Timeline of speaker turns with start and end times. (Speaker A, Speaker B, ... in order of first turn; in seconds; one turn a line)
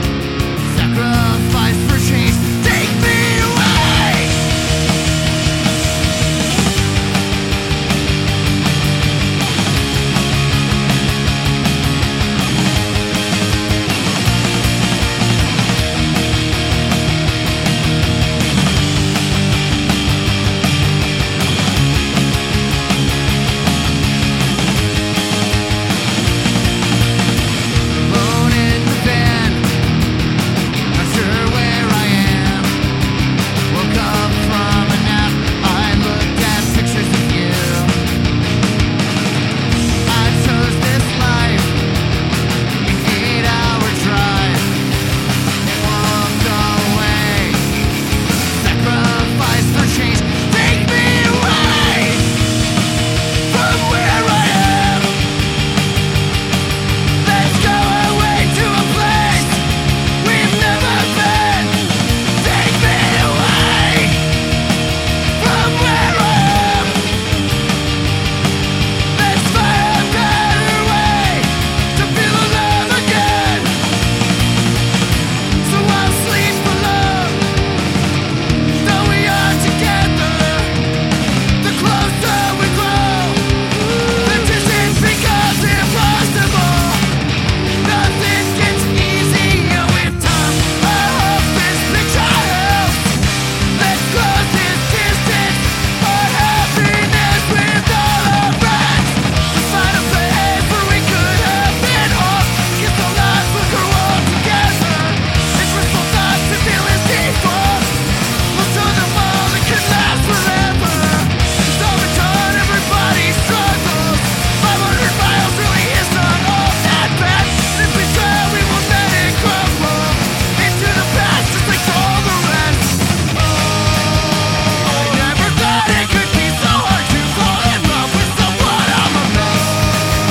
Speaker A: 0.6-4.4
Speaker A: 28.0-29.7
Speaker A: 30.9-32.8
Speaker A: 33.7-38.0
Speaker A: 40.1-41.8
Speaker A: 42.8-44.8
Speaker A: 45.6-47.7
Speaker A: 48.5-52.4
Speaker A: 53.5-55.2
Speaker A: 57.2-64.3
Speaker A: 65.4-67.1
Speaker A: 69.1-73.8
Speaker A: 75.6-77.5
Speaker A: 78.7-80.9
Speaker A: 81.6-87.1
Speaker A: 87.7-123.0
Speaker A: 124.8-129.9